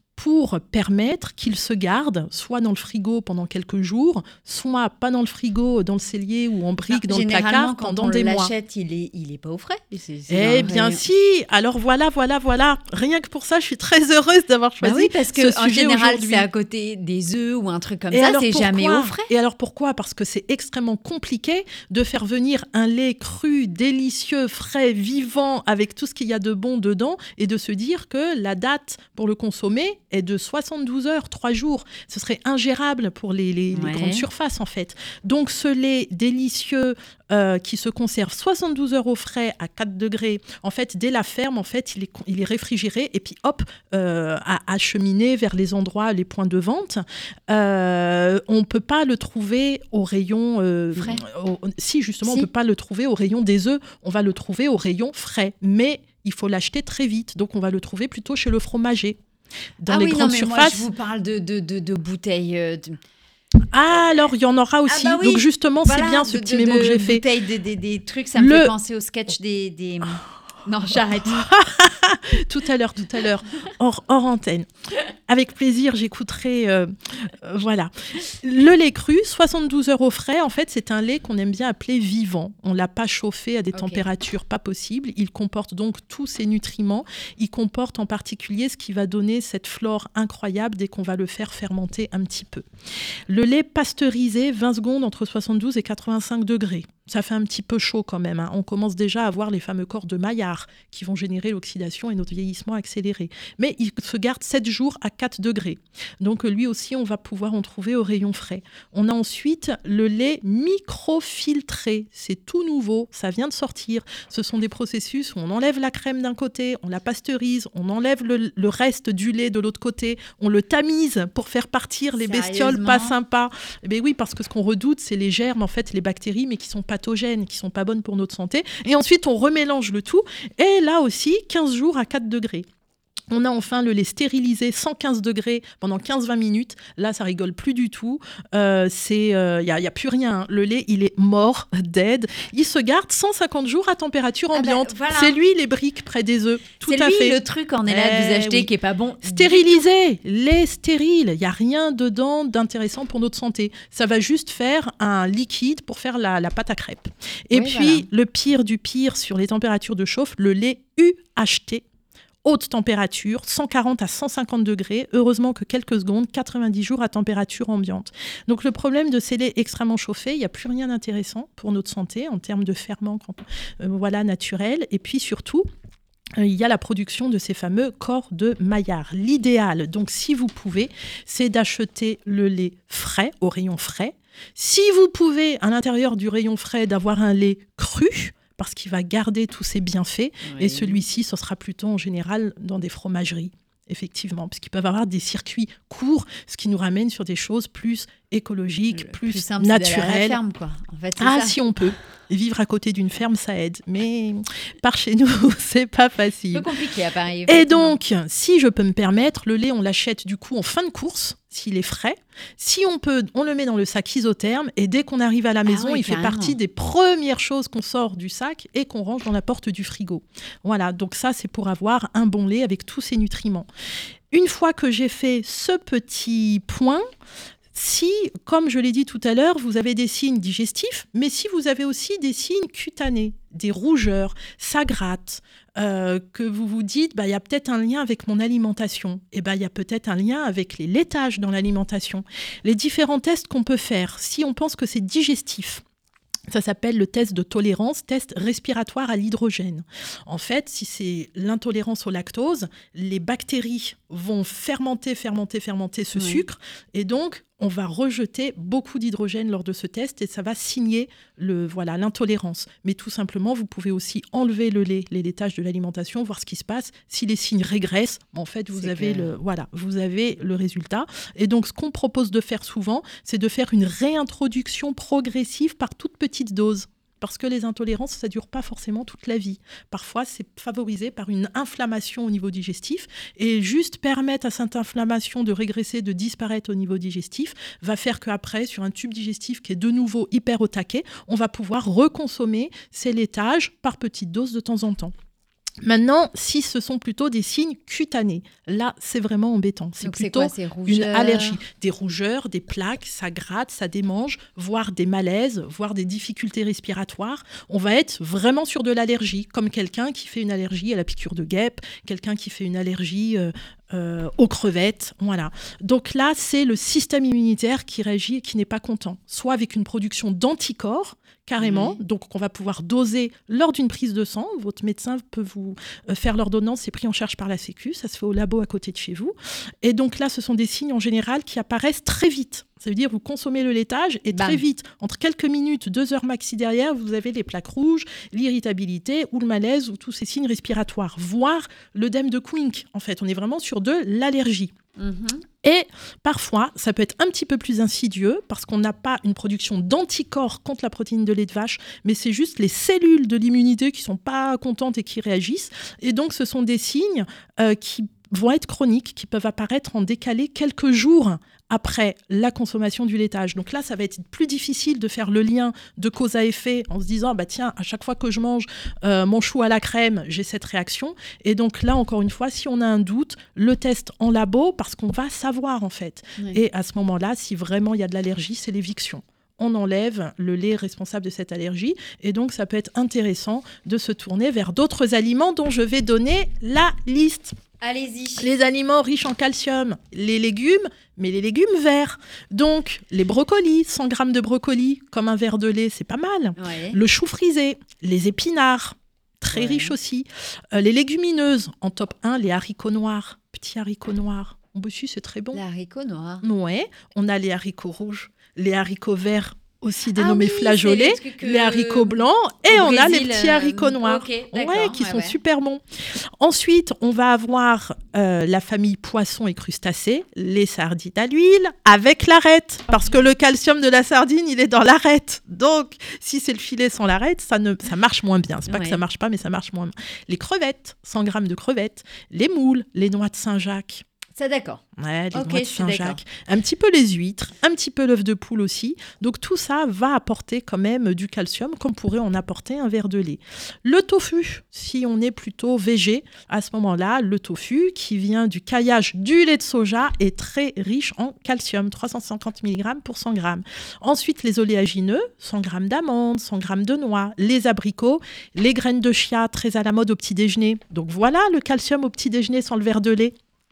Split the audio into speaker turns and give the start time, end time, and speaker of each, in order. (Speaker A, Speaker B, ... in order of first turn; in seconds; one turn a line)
Speaker A: 0.2-8.5
Speaker B: 6.9-11.0
Speaker A: 10.3-16.5
Speaker B: 14.8-19.3
Speaker A: 18.1-59.2
Speaker B: 33.7-34.2
Speaker B: 51.0-51.2
Speaker A: 59.8-60.9
Speaker B: 59.9-63.0
Speaker A: 63.7-67.2
Speaker B: 64.9-71.5
Speaker A: 68.4-68.7
Speaker A: 71.2-74.7
Speaker A: 75.3-92.7
Speaker B: 83.7-84.0
Speaker A: 93.3-132.7
Speaker B: 122.2-123.2
Speaker A: 133.3-148.7
Speaker B: 144.5-145.4
Speaker B: 146.8-149.7
Speaker A: 149.2-161.8
Speaker B: 157.5-158.1
Speaker A: 162.4-175.7
Speaker A: 176.4-200.4
Speaker B: 190.4-191.0
Speaker B: 198.9-201.6
Speaker A: 201.2-206.7
Speaker B: 206.5-207.9
Speaker A: 207.5-223.7
Speaker B: 215.7-216.6
Speaker A: 224.3-227.0
Speaker A: 227.7-245.8
Speaker A: 246.5-295.1
Speaker B: 256.2-256.4
Speaker B: 268.7-269.3
Speaker A: 295.8-344.7
Speaker B: 300.0-301.6
Speaker B: 321.6-322.0
Speaker B: 334.3-334.6
Speaker B: 345.0-345.4
Speaker A: 345.6-387.5
Speaker B: 387.8-388.5
Speaker A: 388.4-405.6
Speaker B: 396.6-397.0
Speaker B: 399.5-399.9
Speaker B: 405.5-406.4
Speaker A: 406.4-415.8
Speaker B: 410.2-415.4
Speaker A: 416.4-434.0
Speaker B: 428.7-429.0
Speaker B: 434.4-434.8
Speaker A: 434.9-463.4
Speaker B: 435.3-436.2